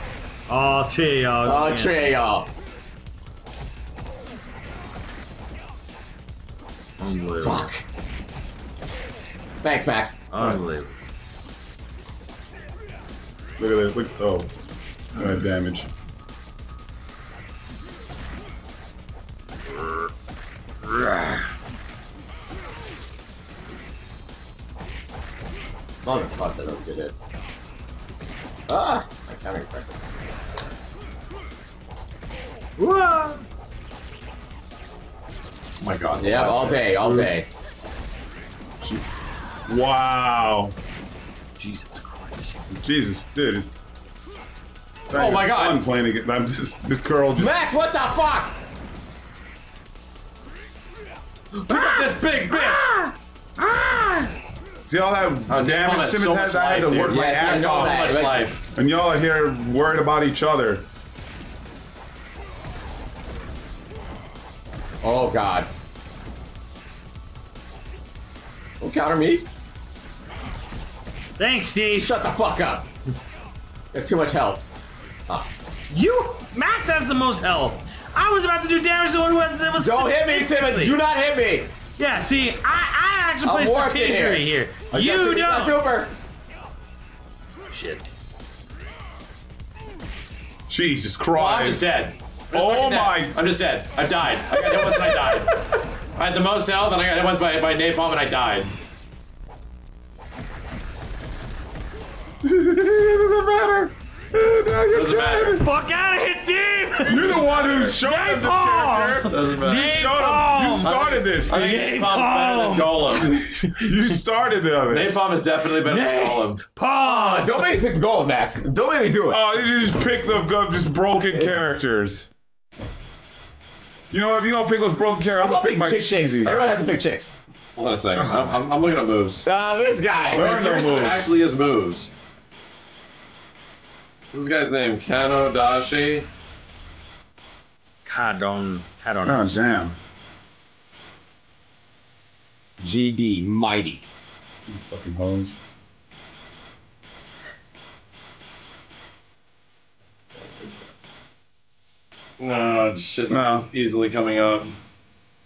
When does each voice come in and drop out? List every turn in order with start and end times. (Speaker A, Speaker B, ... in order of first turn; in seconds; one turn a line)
Speaker A: 0.5-2.1
Speaker B: 1.4-2.5
Speaker A: 7.0-7.7
Speaker B: 7.4-7.8
Speaker B: 9.6-10.3
Speaker A: 10.3-10.9
Speaker C: 13.6-14.5
Speaker C: 15.2-15.9
Speaker A: 19.8-20.1
Speaker A: 20.8-21.5
Speaker B: 26.0-27.1
Speaker B: 28.7-30.0
Speaker A: 32.8-33.4
Speaker D: 35.8-37.2
Speaker B: 36.2-37.5
Speaker C: 39.7-40.8
Speaker A: 41.6-42.6
Speaker C: 42.7-43.7
Speaker C: 45.1-47.6
Speaker D: 45.1-45.8
Speaker B: 47.4-48.6
Speaker D: 51.5-52.9
Speaker A: 51.7-54.3
Speaker C: 54.9-58.2
Speaker D: 55.5-58.6
Speaker B: 57.0-58.5
Speaker C: 58.7-60.9
Speaker B: 65.0-65.7
Speaker B: 68.8-69.5
Speaker A: 71.4-72.1
Speaker B: 72.0-72.9
Speaker B: 73.9-74.6
Speaker A: 75.9-81.0
Speaker B: 79.8-81.7
Speaker A: 82.0-85.8
Speaker B: 83.4-86.2
Speaker A: 87.7-88.0
Speaker C: 90.7-91.9
Speaker D: 91.3-95.6
Speaker C: 92.5-93.4
Speaker C: 94.6-95.4
Speaker D: 96.2-98.7
Speaker C: 102.4-105.7
Speaker D: 104.9-105.6
Speaker A: 105.5-107.5
Speaker C: 107.0-111.7
Speaker D: 107.2-108.0
Speaker A: 108.0-113.3
Speaker D: 109.2-110.2
Speaker D: 111.2-113.3
Speaker C: 113.1-115.2
Speaker D: 114.9-116.6
Speaker A: 115.8-117.6
Speaker B: 117.0-119.4
Speaker C: 119.3-122.3
Speaker C: 124.1-126.5
Speaker B: 125.4-127.3
Speaker D: 127.8-129.5
Speaker B: 129.4-130.5
Speaker C: 130.3-131.3
Speaker D: 130.3-132.1
Speaker D: 134.3-136.3
Speaker A: 138.1-139.6
Speaker C: 139.2-140.0
Speaker B: 142.8-144.1
Speaker C: 144.7-145.6
Speaker D: 152.4-154.8
Speaker C: 153.3-153.7